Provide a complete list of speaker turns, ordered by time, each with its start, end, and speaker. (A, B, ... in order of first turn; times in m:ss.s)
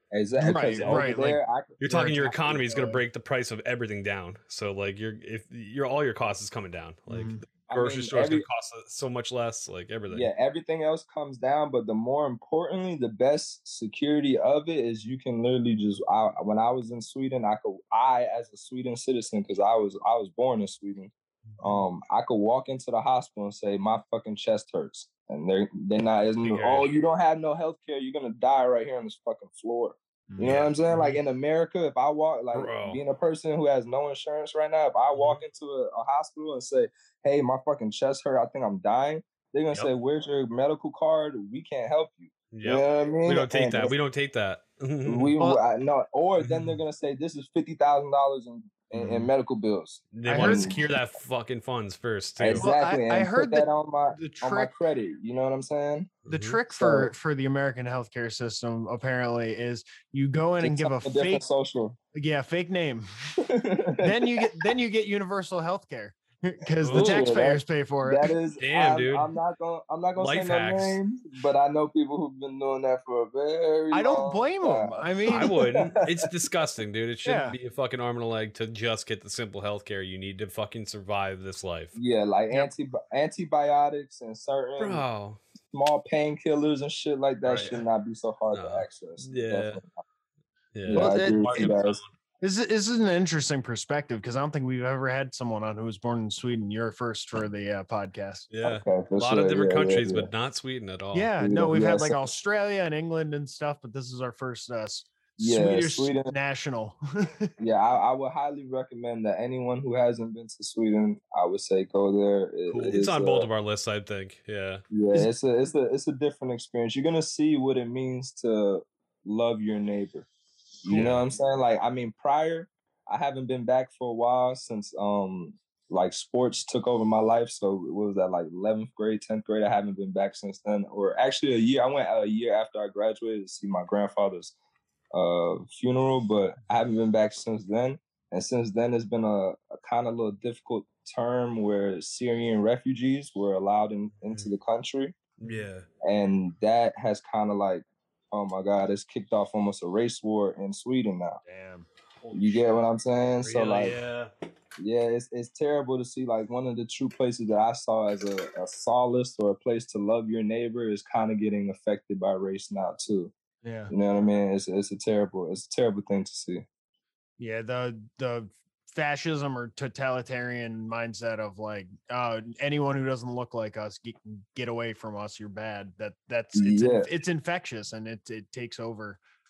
0:00.1-0:01.8 A
0:00.4-0:03.0 B
0:00.8-0:01.1 C
0:01.8-0:10.3 C
0:07.1-0:07.4 B
0:07.7-0:08.4 A
0:10.1-0:43.9 A
0:21.5-0:21.8 B
0:26.4-0:26.9 C
0:30.3-0:31.2 B
0:30.4-0:30.7 C
0:32.5-0:33.0 C
0:42.5-0:45.3 C
0:45.0-0:50.8 A
0:46.4-0:46.8 C
0:48.9-0:49.3 B
0:50.1-0:52.7 C
0:50.3-0:50.8 B
0:52.4-0:56.1 A
0:52.6-0:54.7 B
0:56.2-0:56.6 C
0:56.3-1:01.4 B
0:56.7-0:57.1 A
1:00.6-1:02.0 A
1:02.1-1:03.1 B
1:03.4-1:04.5 A
1:04.0-1:08.3 B
1:06.8-1:07.3 C
1:06.9-1:16.2 A
1:08.6-1:09.3 C
1:10.2-1:11.0 C
1:13.9-1:15.5 B
1:15.3-1:22.0 C
1:17.2-1:17.6 B
1:21.9-1:25.0 A
1:24.8-1:25.4 C
1:25.7-1:29.9 A
1:27.5-1:27.8 B
1:28.5-1:29.8 C
1:30.8-1:32.1 C
1:30.9-1:32.0 A
1:30.9-1:31.7 B
1:32.4-1:38.5 B
1:38.5-1:41.4 C
1:38.6-1:40.3 A
1:41.1-1:47.5 B
1:41.4-1:42.3 A
1:45.4-1:46.3 A
1:47.6-1:53.5 A
1:52.7-1:54.8 C
1:54.9-2:00.3 A
2:00.8-2:14.5 A
2:00.9-2:01.2 C
2:15.1-2:25.2 A
2:25.4-2:25.9 C
2:26.0-2:31.4 A
2:31.4-2:31.9 B
2:32.2-2:32.8 C
2:32.3-2:34.0 A
2:33.4-2:34.3 C
2:34.8-2:43.3 A
2:43.6-2:43.9 B
2:43.9-2:46.6 A
2:47.4-2:59.2 B
2:56.5-2:57.1 A